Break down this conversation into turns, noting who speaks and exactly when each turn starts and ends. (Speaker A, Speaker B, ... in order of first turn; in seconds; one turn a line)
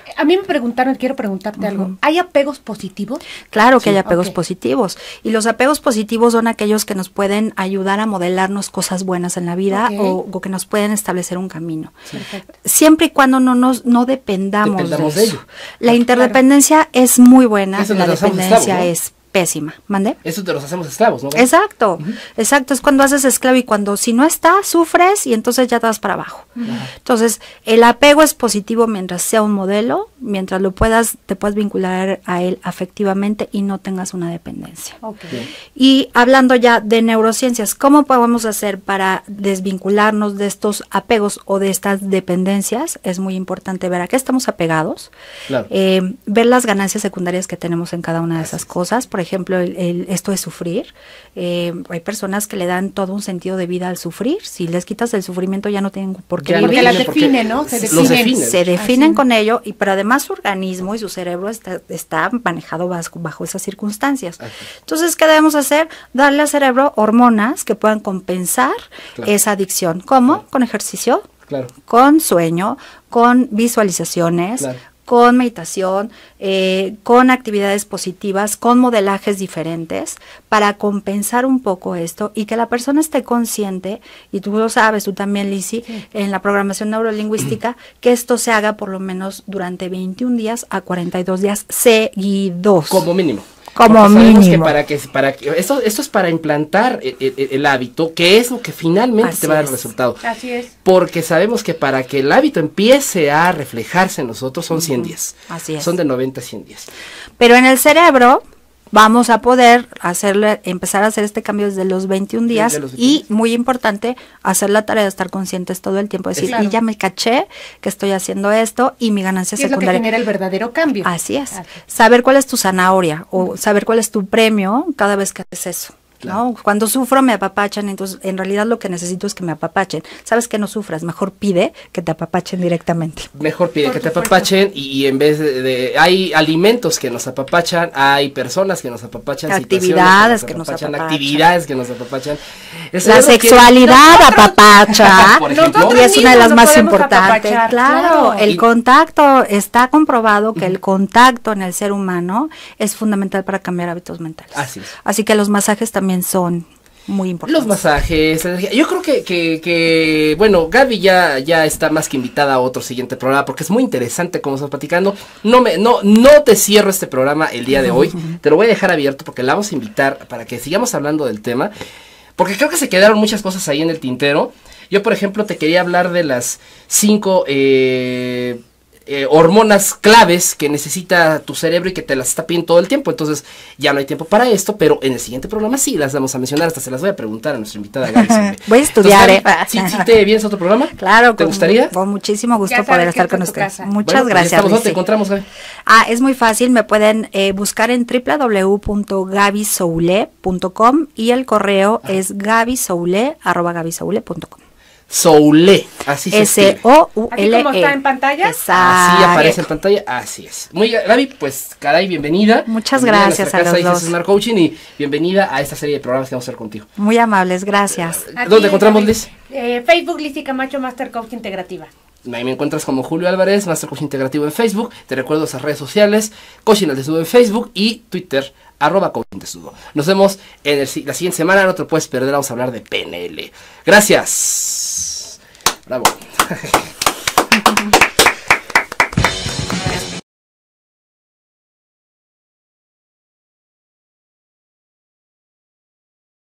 Speaker A: 0.2-3.2
Speaker B: 1.6-1.9
Speaker B: 3.5-12.1
Speaker A: 4.0-4.3
Speaker A: 9.7-10.2
Speaker A: 12.1-12.5
Speaker B: 12.6-20.2
Speaker C: 14.6-15.4
Speaker C: 17.8-18.9
Speaker C: 20.2-21.5
Speaker B: 21.4-35.0
Speaker A: 35.0-35.4
Speaker B: 35.7-45.1
Speaker B: 45.7-57.2
Speaker C: 48.4-48.7
Speaker C: 56.4-58.7
Speaker A: 56.6-59.2
Speaker B: 57.9-71.3
Speaker C: 71.5-71.7
Speaker B: 71.8-93.1
Speaker C: 92.9-100.2
Speaker B: 93.8-94.8
Speaker B: 99.2-99.9
Speaker A: 100.2-100.7
Speaker C: 100.8-106.9
Speaker B: 104.7-105.9
Speaker B: 107.4-120.1
Speaker C: 112.5-113.2
Speaker A: 116.5-116.7
Speaker A: 119.6-121.7
Speaker B: 121.0-133.3
Speaker C: 133.3-142.4
Speaker A: 133.9-134.5
Speaker B: 139.5-141.4
Speaker C: 142.9-144.0
Speaker B: 143.0-157.8
Speaker A: 143.9-144.6
Speaker C: 144.9-146.5
Speaker A: 145.4-148.5
Speaker C: 154.5-154.9
Speaker C: 157.5-171.7
Speaker C: 172.4-191.9
Speaker B: 188.3-190.1
Speaker B: 191.0-195.0
Speaker A: 192.7-193.9
Speaker C: 194.0-195.5
Speaker B: 195.9-204.6
Speaker C: 205.1-206.8
Speaker B: 206.3-209.6
Speaker A: 207.3-208.6
Speaker C: 208.8-216.9
Speaker B: 212.7-214.2
Speaker B: 217.0-218.3
Speaker C: 218.1-219.3
Speaker A: 218.4-221.9
Speaker C: 222.2-236.9